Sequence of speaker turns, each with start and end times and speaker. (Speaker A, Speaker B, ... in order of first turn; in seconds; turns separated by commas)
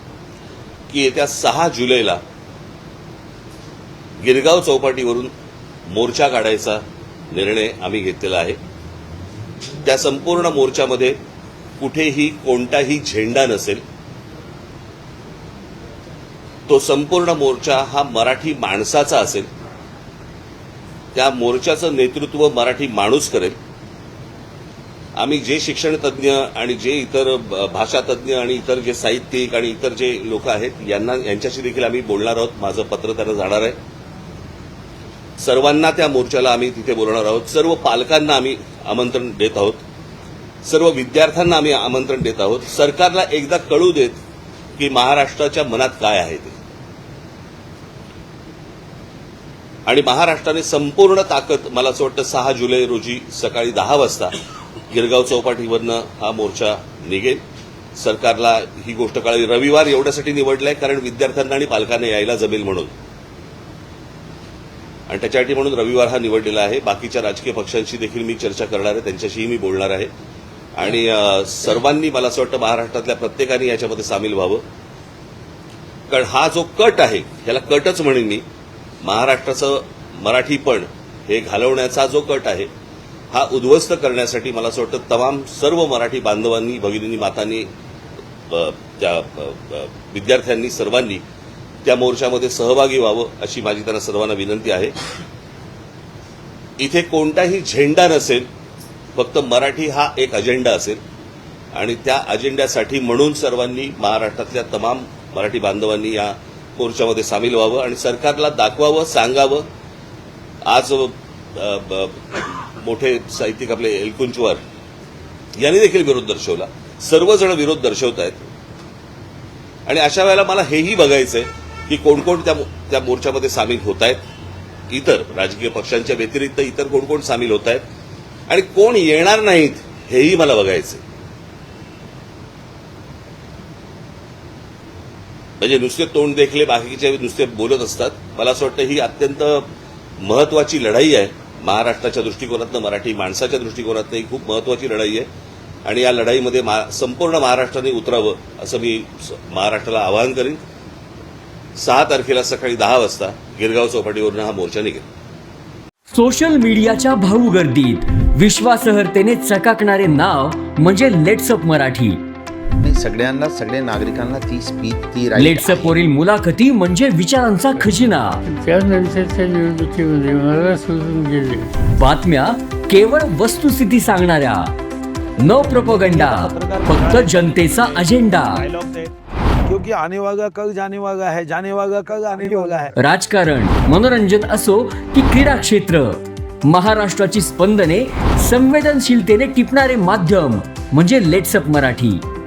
Speaker A: 0.9-2.2, Speaker A: 4.2-5.3, Speaker A: 5.9-8.6, Speaker A: 9.8-11.2, Speaker A: 11.8-13.8, Speaker A: 16.7-19.5, Speaker A: 21.1-23.6, Speaker A: 25.2-33.8, Speaker A: 35.4-39.8, Speaker A: 40.6-44.2, Speaker A: 44.8-46.6, Speaker A: 49.9-54.3, Speaker A: 54.9-57.4, Speaker A: 58.0-62.9, Speaker A: 65.1-70.1, Speaker A: 70.7-74.6, Speaker A: 76.1-78.4, Speaker A: 79.0-82.7, Speaker A: 83.3-87.7, Speaker A: 88.5-91.2, Speaker A: 91.8-94.9, Speaker A: 96.8-98.5, Speaker A: 99.1-101.0, Speaker A: 101.7-109.7, Speaker A: 110.7-114.6, Speaker A: 115.6-118.5, Speaker A: 119.8-124.2, Speaker A: 124.9-127.8, Speaker A: 128.5-131.0, Speaker A: 135.6-139.7, Speaker A: 140.2-145.3, Speaker A: 145.8-150.6, Speaker A: 151.8-155.0, Speaker B: 156.1-162.2, Speaker C: 162.8-166.0, Speaker B: 165.3-168.4, Speaker D: 168.6-171.6, Speaker B: 171.9-174.7, Speaker B: 175.4-178.7, Speaker E: 175.4-179.1, Speaker E: 179.7-182.9, Speaker B: 182.9-192.2